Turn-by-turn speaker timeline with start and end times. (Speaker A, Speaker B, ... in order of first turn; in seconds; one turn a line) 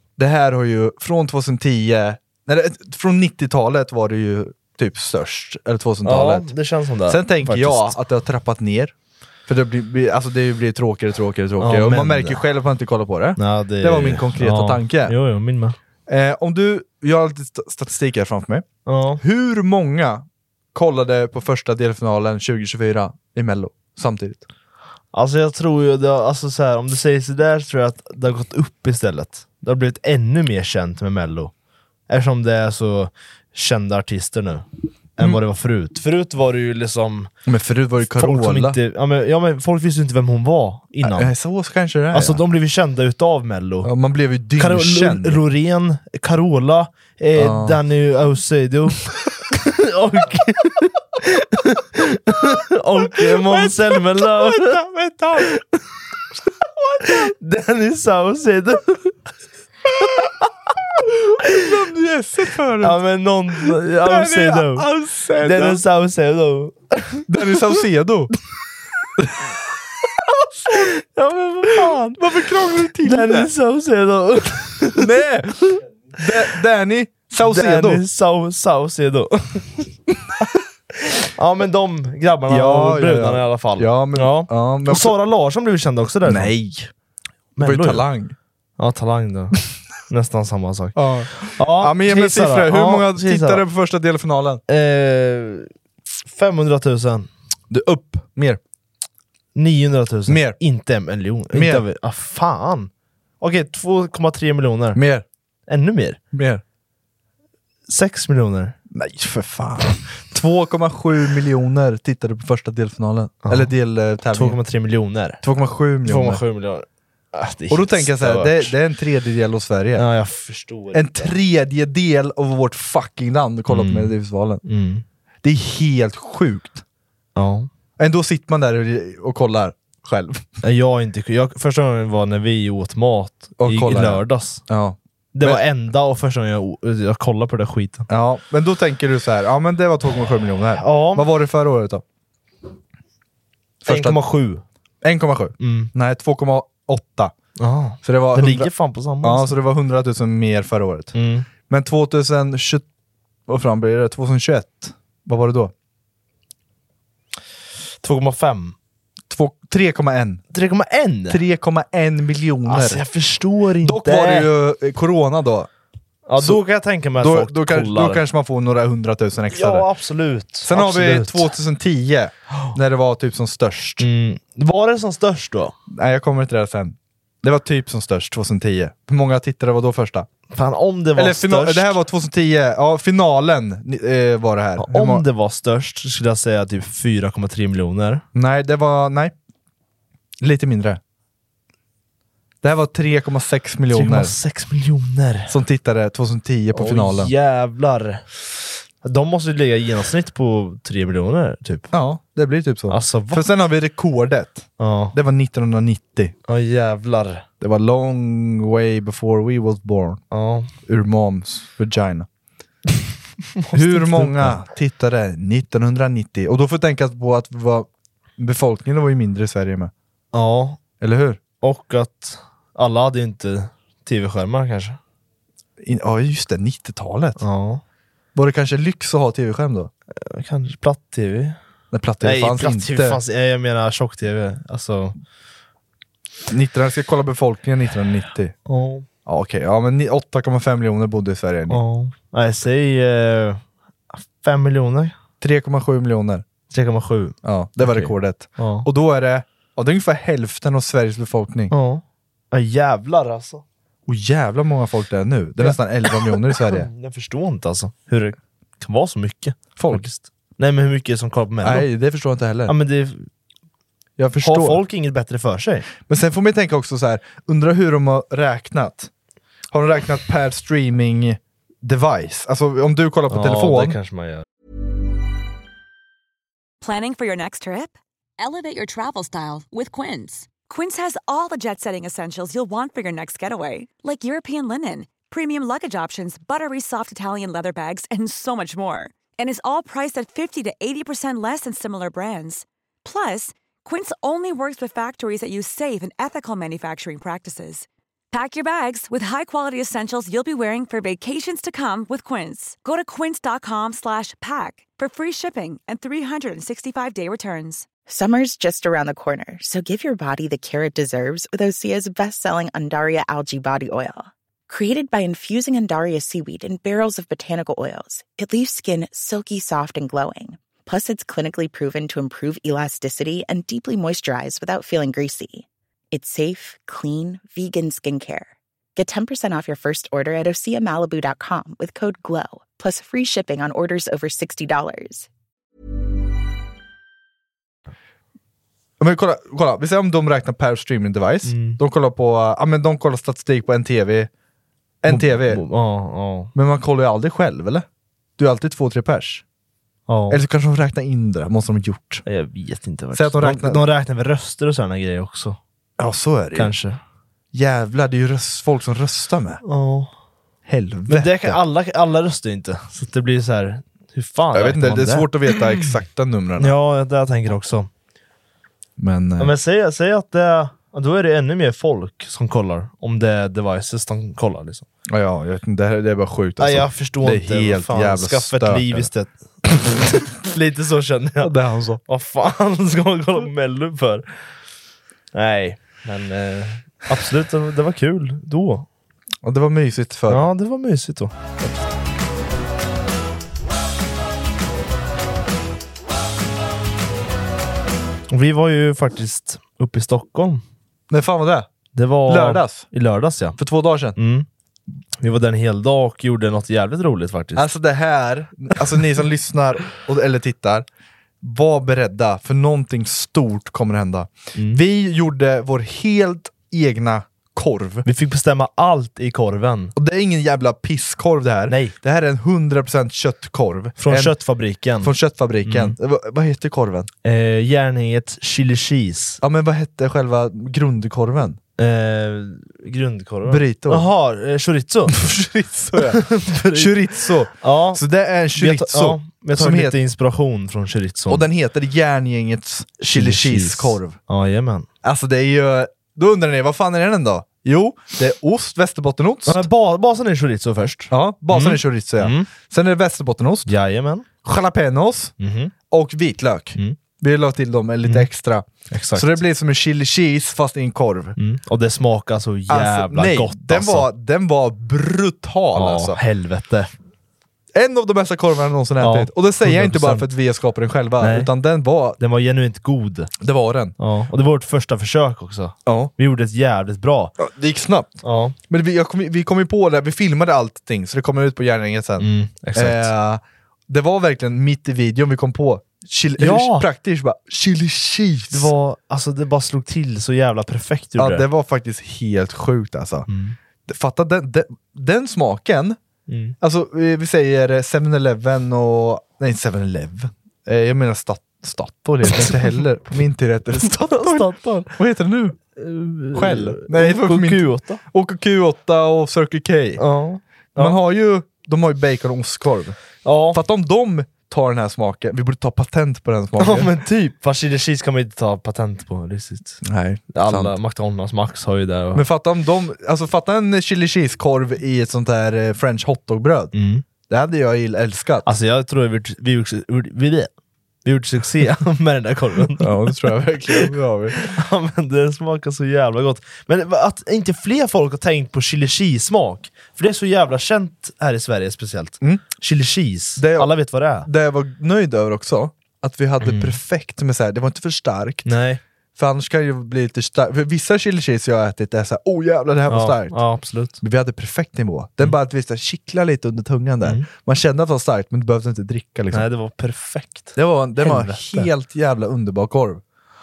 Speaker A: 0.2-6.5
Speaker B: 6.0-8.0
Speaker A: 7.1-8.9
Speaker A: 9.5-15.2
Speaker B: 11.6-12.4
Speaker B: 13.4-15.8
Speaker A: 16.1-18.6
Speaker B: 18.9-19.2
Speaker A: 19.2-24.4
Speaker B: 25.1-31.5
Speaker B: 32.1-34.6
Speaker B: 35.2-37.3
Speaker A: 37.5-38.8
Speaker B: 38.1-41.3
Speaker A: 41.0-42.4
Speaker B: 42.1-43.9
Speaker A: 43.8-45.4
Speaker B: 44.6-54.8
Speaker A: 47.4-47.8
Speaker A: 53.0-55.5
Speaker A: 56.8-57.3
Speaker B: 57.0-59.1
Speaker A: 60.0-60.2
Speaker B: 60.0-60.3
Speaker A: 61.0-63.0
Speaker B: 62.8-64.9
Speaker A: 63.5-65.8
Speaker B: 65.4-67.6
Speaker A: 67.3-68.3
Speaker A: 69.2-69.5
Speaker A: 70.4-70.9
Speaker B: 70.7-72.2
Speaker A: 71.7-73.5
Speaker B: 73.0-75.1
Speaker A: 75.0-78.0
Speaker B: 77.4-79.9
Speaker B: 81.0-86.5
Speaker A: 82.5-85.2
Speaker A: 86.2-86.9
Speaker B: 87.5-88.0
Speaker A: 87.6-88.3
Speaker B: 88.8-93.6
Speaker A: 90.9-94.6
Speaker B: 94.7-95.7
Speaker B: 96.2-97.3
Speaker A: 97.7-98.6
Speaker B: 99.5-105.0
Speaker A: 100.3-100.6
Speaker A: 101.5-101.8
Speaker A: 104.9-105.2
Speaker B: 105.7-106.2
Speaker A: 106.3-106.6
Speaker B: 107.9-108.8
Speaker A: 108.9-114.6
Speaker B: 113.4-113.7
Speaker B: 114.3-115.4
Speaker A: 115.4-116.4
Speaker B: 116.0-118.8
Speaker A: 117.7-120.0
Speaker B: 120.0-121.3
Speaker A: 120.9-124.6
Speaker B: 123.7-125.0
Speaker A: 125.4-126.8
Speaker B: 127.3-127.7
Speaker A: 128.0-130.5
Speaker B: 130.6-134.6
Speaker A: 133.6-135.6
Speaker B: 135.3-138.1
Speaker A: 138.1-142.0
Speaker B: 140.8-141.3
Speaker A: 143.8-144.2
Speaker B: 143.8-144.6
Speaker A: 145.0-147.3
Speaker B: 145.6-145.9
Speaker B: 147.6-149.5
Speaker A: 148.0-152.8
Speaker B: 151.1-151.5
Speaker A: 153.5-155.7
Speaker B: 158.0-158.7
Speaker A: 159.3-160.4
Speaker B: 160.5-161.4
Speaker A: 161.3-163.0
Speaker B: 162.6-164.5
Speaker A: 163.8-165.7
Speaker B: 166.3-168.2
Speaker A: 167.2-169.9
Speaker B: 169.5-171.5
Speaker A: 170.6-174.1
Speaker B: 174.0-175.7
Speaker A: 175.9-180.3
Speaker B: 180.5-182.0
Speaker A: 181.1-185.2
Speaker B: 184.8-188.2
Speaker A: 188.3-189.3
Speaker A: 190.4-191.0
Speaker A: 192.6-194.3
Speaker B: 193.9-195.5
Speaker A: 195.5-197.3
Speaker B: 196.7-198.3
Speaker B: 199.0-201.9
Speaker A: 201.9-206.3
Speaker B: 202.9-203.4
Speaker B: 204.8-205.2
Speaker B: 206.5-207.4
Speaker A: 207.6-210.2
Speaker B: 210.3-210.7
Speaker A: 210.8-212.3
Speaker B: 213.6-214.6
Speaker A: 213.7-219.9
Speaker B: 220.3-220.8
Speaker A: 221.0-221.4
Speaker B: 221.6-225.0
Speaker A: 225.8-227.4
Speaker B: 227.4-227.8
Speaker A: 228.3-229.9
Speaker B: 230.1-231.6
Speaker A: 231.9-233.2
Speaker B: 232.2-235.2
Speaker A: 236.5-238.5
Speaker B: 238.7-239.1
Speaker A: 239.2-241.8
Speaker B: 241.7-243.6
Speaker B: 244.1-245.1
Speaker A: 245.4-246.4
Speaker B: 246.7-248.9
Speaker A: 247.4-251.7
Speaker B: 251.7-253.6
Speaker A: 254.1-256.9
Speaker B: 255.6-261.9
Speaker A: 259.8-260.0
Speaker A: 261.6-262.7
Speaker B: 262.7-263.3
Speaker A: 264.2-264.8
Speaker B: 264.4-265.9
Speaker A: 266.0-269.1
Speaker A: 269.7-274.0
Speaker B: 273.3-274.4
Speaker C: 276.8-307.9
Speaker D: 308.1-335.3
Speaker A: 339.0-344.3
Speaker B: 341.4-341.8
Speaker A: 345.0-345.6
Speaker B: 345.1-346.5
Speaker A: 346.5-347.9
Speaker A: 348.4-349.4
Speaker B: 350.1-350.4
Speaker A: 350.3-352.2
Speaker B: 352.2-355.6
Speaker A: 353.1-353.9
Speaker A: 356.0-356.7
Speaker B: 356.5-357.0
Speaker A: 357.5-359.6
Speaker B: 359.6-360.1
Speaker A: 360.6-361.6
Speaker B: 361.1-365.6
Speaker A: 364.5-366.7
Speaker B: 366.6-367.9
Speaker A: 369.0-369.5
Speaker B: 369.4-374.9
Speaker A: 375.1-379.1
Speaker B: 376.6-381.5
Speaker A: 381.4-382.0
Speaker B: 382.1-384.2
Speaker B: 385.3-388.9
Speaker A: 389.4-390.5
Speaker B: 390.3-391.3
Speaker B: 398.3-400.6
Speaker A: 401.1-401.7
Speaker B: 401.9-403.6
Speaker A: 402.2-402.9
Speaker A: 403.6-404.2
Speaker B: 404.1-404.5
Speaker B: 405.2-407.7
Speaker A: 407.6-410.9
Speaker A: 411.4-418.1
Speaker B: 414.5-414.8
Speaker B: 418.0-419.9
Speaker A: 419.9-424.4
Speaker B: 421.7-421.9
Speaker B: 424.0-425.1
Speaker A: 425.0-427.1
Speaker B: 425.6-425.9
Speaker B: 427.2-429.4
Speaker A: 429.4-431.6
Speaker B: 431.8-435.2
Speaker A: 433.4-434.1
Speaker A: 435.1-440.0
Speaker B: 435.9-438.0
Speaker B: 438.5-441.5
Speaker A: 441.3-444.2
Speaker B: 443.0-444.9
Speaker A: 445.0-449.7
Speaker B: 449.4-452.5
Speaker A: 451.1-453.7
Speaker B: 453.7-454.3
Speaker A: 454.4-455.3
Speaker B: 455.4-455.7
Speaker A: 455.9-461.4
Speaker B: 458.9-459.4
Speaker B: 461.4-464.1
Speaker A: 462.7-466.2
Speaker B: 465.7-466.9
Speaker A: 467.7-472.2
Speaker B: 469.0-470.3
Speaker B: 471.2-471.5
Speaker B: 472.2-473.3
Speaker A: 473.4-473.9
Speaker B: 474.0-477.3
Speaker A: 475.9-476.1
Speaker A: 477.4-488.7
Speaker B: 478.2-478.6
Speaker B: 482.2-483.1
Speaker B: 486.4-486.9
Speaker B: 488.5-491.4
Speaker A: 491.2-493.3
Speaker B: 493.3-493.6
Speaker A: 493.9-496.0
Speaker B: 496.3-496.6
Speaker A: 496.6-505.6
Speaker B: 502.2-502.7
Speaker B: 503.7-504.9
Speaker B: 505.7-508.0
Speaker A: 506.3-510.0
Speaker B: 510.0-511.0
Speaker A: 510.8-516.9
Speaker B: 513.2-513.6
Speaker B: 516.6-522.2
Speaker A: 519.8-520.8
Speaker A: 522.1-526.7
Speaker B: 526.7-527.0
Speaker A: 527.2-528.5
Speaker B: 528.4-530.5
Speaker B: 531.0-544.3
Speaker A: 532.8-534.4
Speaker A: 543.4-548.5
Speaker B: 546.4-546.8
Speaker B: 548.4-548.8
Speaker A: 549.2-553.4
Speaker B: 552.9-554.0
Speaker A: 554.0-559.5
Speaker B: 559.3-561.7
Speaker A: 560.5-563.0